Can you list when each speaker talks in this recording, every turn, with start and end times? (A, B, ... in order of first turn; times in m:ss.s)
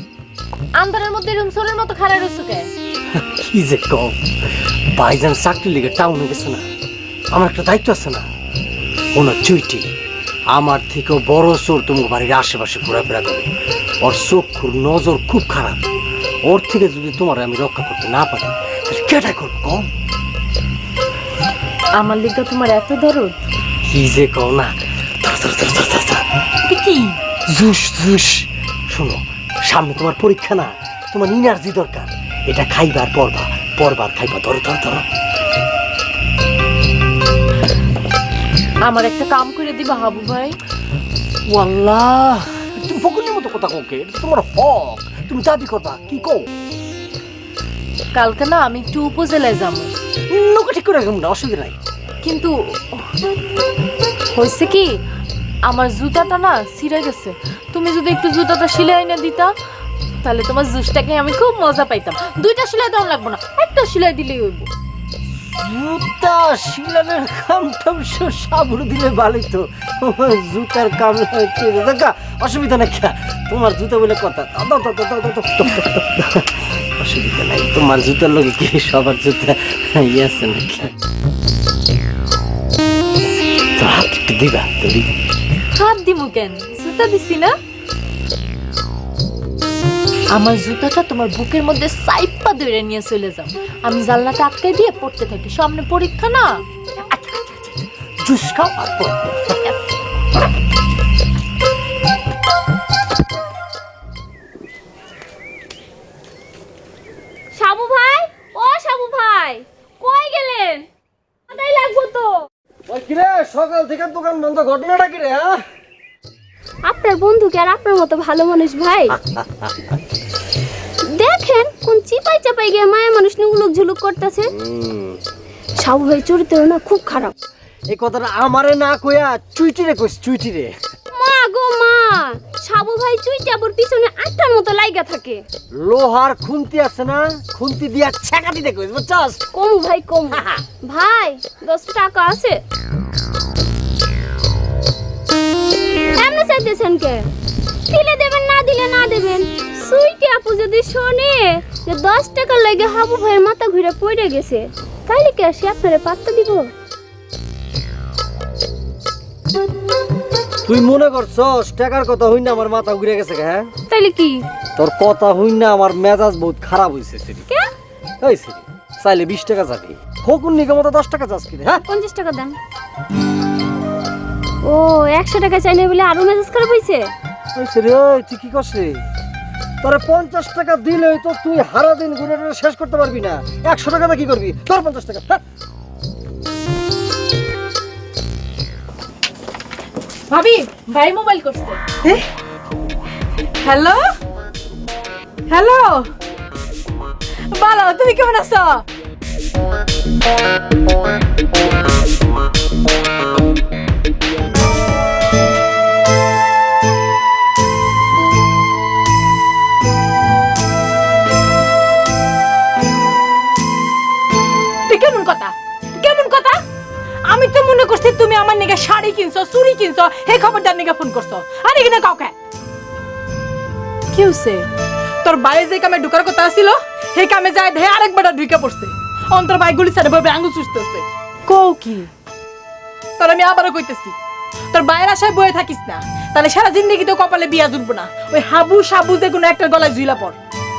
0:00.8-0:02.7 A
0:03.1-0:04.2 B
0:04.9-0:06.6 B
0:07.3-0:08.3 B
0:09.1-0:09.9 B
0:10.5-0:13.5 B
0:14.0-0:15.8 B
0:16.4-0:19.9 B
0:21.9-0:23.4 A
0:23.8-0:26.2 B
0:26.7-0:27.2 A
0:27.5-0:35.0 B
0:38.8-0:40.6 A
0:41.5-0:46.5 B
0:48.1-0:49.9 A
0:50.3-0:51.8 B
0:52.2-0:53.0 A
0:54.3-0:55.0 A
0:55.6-0:59.6 A
1:00.2-1:04.7 A
1:05.4-1:20.9 B
1:23.8-1:25.1 B
1:25.7-1:27.6 A
1:30.3-1:36.6 A
1:38.2-1:39.6 B
1:47.5-1:50.9 C
1:51.5-1:52.5 C
1:52.9-1:55.6 B
1:56.9-1:59.2 C
1:59.1-1:59.7 B
2:01.1-2:04.5 C
2:04.6-2:05.2 B
2:05.8-2:07.3 C
2:07.9-2:10.7 B
2:11.1-2:15.4 C
2:15.8-2:19.5 B
2:19.5-2:22.6 C
2:20.3-2:20.6 B
2:26.2-2:27.3 C
2:27.9-2:36.7 C
2:40.6-2:43.7 B
2:43.9-2:44.5 C
2:44.8-2:47.4 B
2:48.2-2:51.8 B
2:51.8-2:52.6 C
2:54.6-2:57.1 C
2:57.6-2:59.0 B
2:59.8-3:05.4 B
3:10.3-3:12.0 A
3:13.6-3:14.0 A
3:17.6-3:18.6 A
3:34.9-3:36.6 D
3:37.3-3:42.3 D
3:44.1-3:44.7 A
3:45.2-3:51.0 D
3:51.5-3:52.1 A
3:53.2-3:54.2 D
3:54.7-4:00.4 D